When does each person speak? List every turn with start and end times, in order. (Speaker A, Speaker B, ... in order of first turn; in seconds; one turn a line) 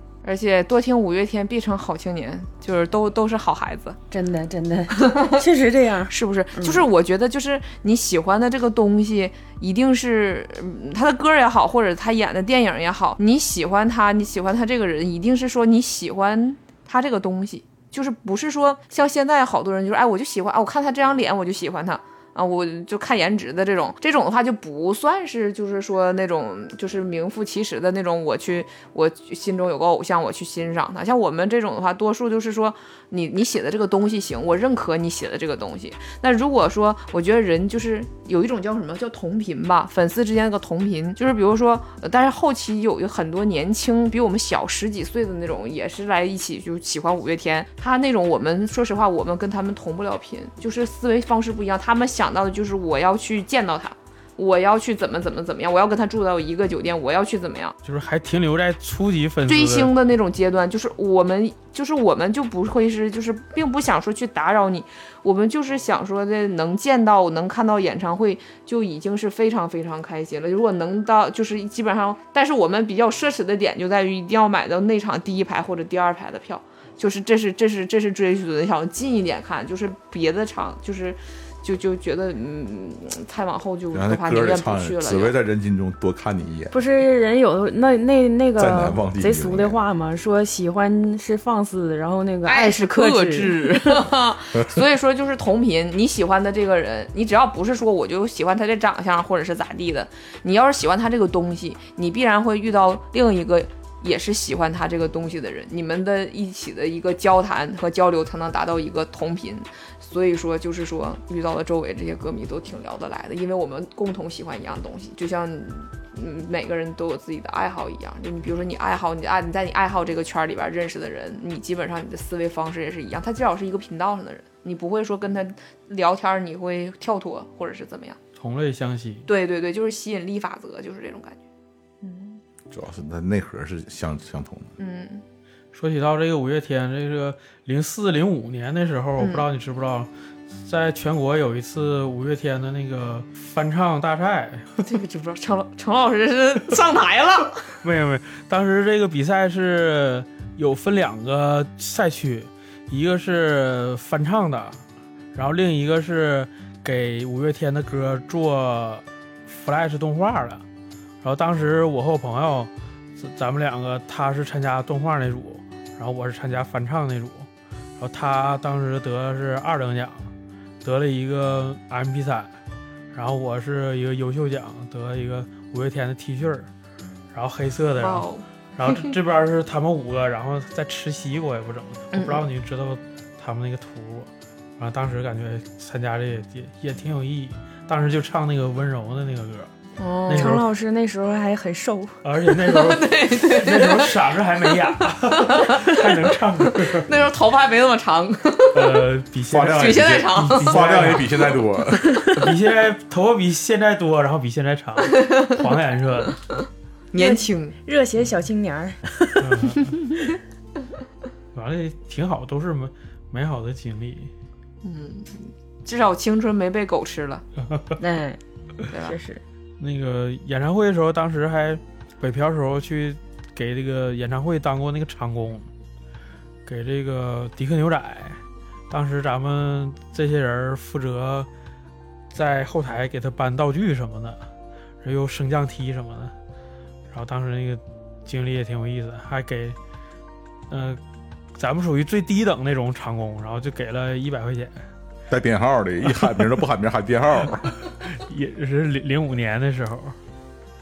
Speaker A: 0.2-4.0
Speaker B: 4.1-6.8
Speaker A: 5.0-5.3
Speaker A: 6.1-57.7
Speaker C: 57.8-59.9
Speaker A: 59.5-85.3
Speaker D: 83.9-86.7
Speaker B: 86.7-94.0
Speaker D: 88.6-89.8
Speaker A: 92.5-128.2
Speaker C: 128.4-129.3
Speaker A: 129.3-131.4
Speaker A: 132.0-132.4
Speaker D: 132.7-134.7
Speaker A: 134.8-135.2
Speaker C: 135.7-144.8
Speaker A: 139.2-139.4
Speaker A: 144.8-147.7
Speaker C: 147.8-154.8
Speaker C: 155.3-160.6
Speaker C: 161.2-167.5
Speaker C: 168.0-170.3
Speaker C: 170.8-172.5
Speaker C: 173.1-176.7
Speaker C: 177.3-189.7
Speaker A: 178.0-179.1
Speaker A: 182.1-182.4
Speaker A: 190.0-190.6
Speaker C: 190.3-190.7
Speaker B: 190.3-192.2
Speaker C: 192.2-197.2
Speaker A: 192.6-194.3
Speaker A: 195.3-196.2
Speaker A: 196.7-199.0
Speaker C: 198.7-201.3
Speaker D: 199.5-202.2
Speaker A: 199.7-201.3
Speaker A: 202.1-202.4
Speaker C: 202.3-206.4
Speaker A: 205.1-205.6
Speaker A: 207.1-207.8
Speaker B: 207.2-210.3
Speaker C: 209.4-209.9
Speaker C: 211.5-214.3
Speaker A: 214.8-217.4
Speaker B: 218.0-218.4
Speaker A: 218.9-219.2
Speaker B: 218.9-219.4
Speaker C: 219.8-225.7
Speaker C: 226.7-231.5
Speaker C: 232.3-234.4
Speaker C: 235.0-236.3
Speaker C: 237.1-239.8
Speaker C: 240.7-241.0
Speaker C: 241.6-244.8
Speaker D: 245.3-247.7
Speaker C: 246.1-246.4
Speaker C: 248.0-250.2